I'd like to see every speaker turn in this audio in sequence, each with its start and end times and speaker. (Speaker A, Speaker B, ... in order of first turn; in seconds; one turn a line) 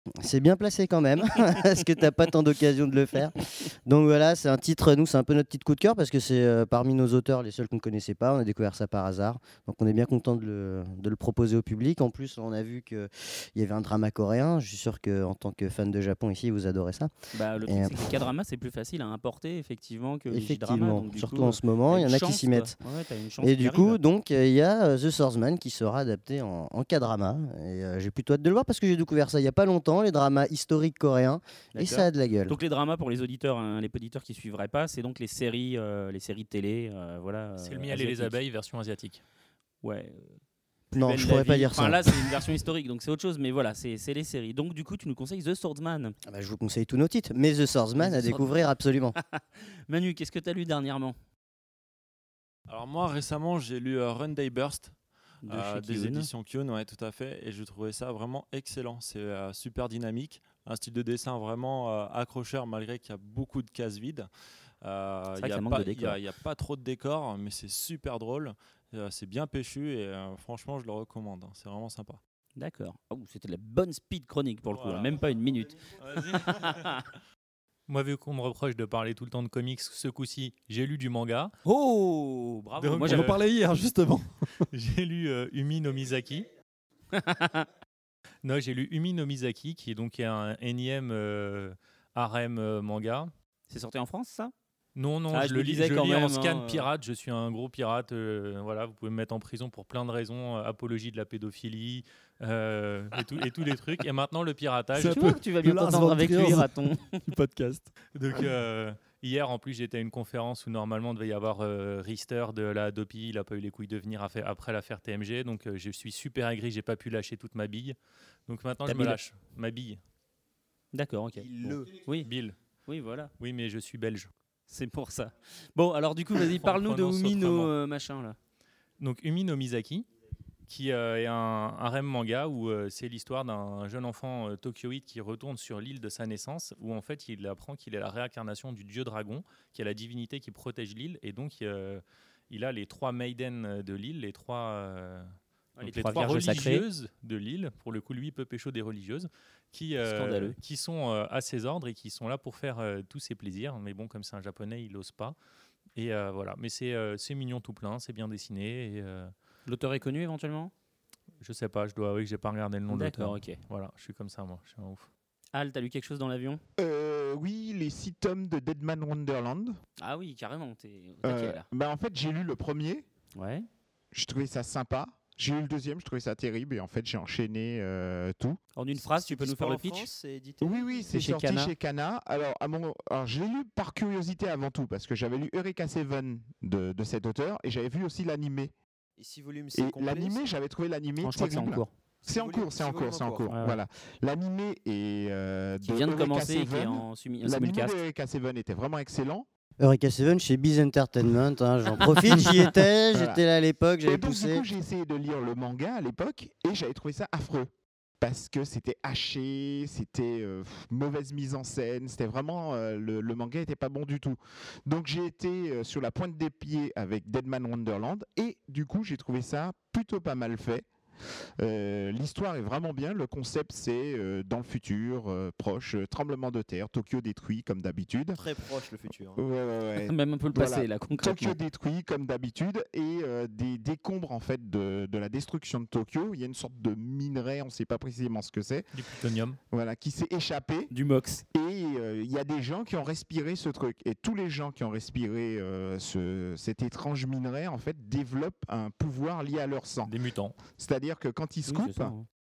Speaker A: 0.2-17.1
Speaker B: 17.3-24.0
Speaker A: 17.6-18.1
Speaker A: 20.3-22.7
Speaker A: 23.4-32.5
Speaker B: 31.7-38.3
Speaker C: 37.6-39.2
Speaker B: 39.8-40.4
Speaker B: 40.9-46.1
Speaker A: 40.9-42.3
Speaker A: 46.3-49.1
Speaker B: 48.0-48.5
Speaker B: 49.1-51.1
Speaker D: 52.7-54.9
Speaker B: 55.4-56.3
Speaker D: 55.5-64.3
Speaker D: 64.8-72.2
Speaker B: 65.3-66.2
Speaker B: 72.6-77.0
Speaker D: 74.8-75.0
Speaker C: 76.1-76.9
Speaker C: 77.9-81.5
Speaker B: 81.6-83.3
Speaker C: 82.8-83.4
Speaker E: 83.0-84.6
Speaker C: 84.7-86.5
Speaker B: 87.1-87.7
Speaker C: 88.4-93.3
Speaker B: 93.7-94.5
Speaker C: 95.0-105.2
Speaker B: 95.3-96.9
Speaker E: 105.0-107.9
Speaker B: 105.0-107.2
Speaker C: 108.1-118.0
Speaker C: 118.5-120.0
Speaker B: 118.8-119.2
Speaker B: 120.9-122.3
Speaker F: 121.3-121.9
Speaker C: 122.2-122.5
Speaker B: 122.9-123.3
Speaker C: 123.4-124.3
Speaker B: 124.7-128.4
Speaker C: 126.4-127.7
Speaker C: 129.0-130.1
Speaker C: 130.7-155.4
Speaker B: 145.8-146.8
Speaker B: 150.0-150.6
Speaker C: 155.9-159.3
Speaker B: 159.7-160.7
Speaker C: 161.4-165.1
Speaker B: 162.9-163.6
Speaker B: 165.5-166.6
Speaker G: 166.8-169.8
Speaker B: 170.0-171.7
Speaker G: 171.2-173.1
Speaker B: 173.3-173.7
Speaker G: 174.1-178.6
Speaker B: 178.8-180.1
Speaker F: 178.9-181.1
Speaker G: 180.6-188.7
Speaker B: 181.1-181.7
Speaker F: 189.2-190.4
Speaker G: 189.7-199.5
Speaker B: 191.2-191.9
Speaker F: 192.2-193.5
Speaker B: 193.5-193.8
Speaker B: 195.8-198.0
Speaker A: 199.8-204.6
Speaker G: 203.1-203.4
Speaker G: 204.0-220.9
Speaker G: 221.6-228.4
Speaker F: 228.4-229.4
Speaker G: 229.3-238.9
Speaker B: 230.0-231.6
Speaker C: 238.9-239.6
Speaker G: 239.7-240.9
Speaker B: 240.9-241.4
Speaker G: 241.5-250.1
Speaker C: 250.1-250.6
Speaker G: 250.7-252.1
Speaker B: 251.7-252.2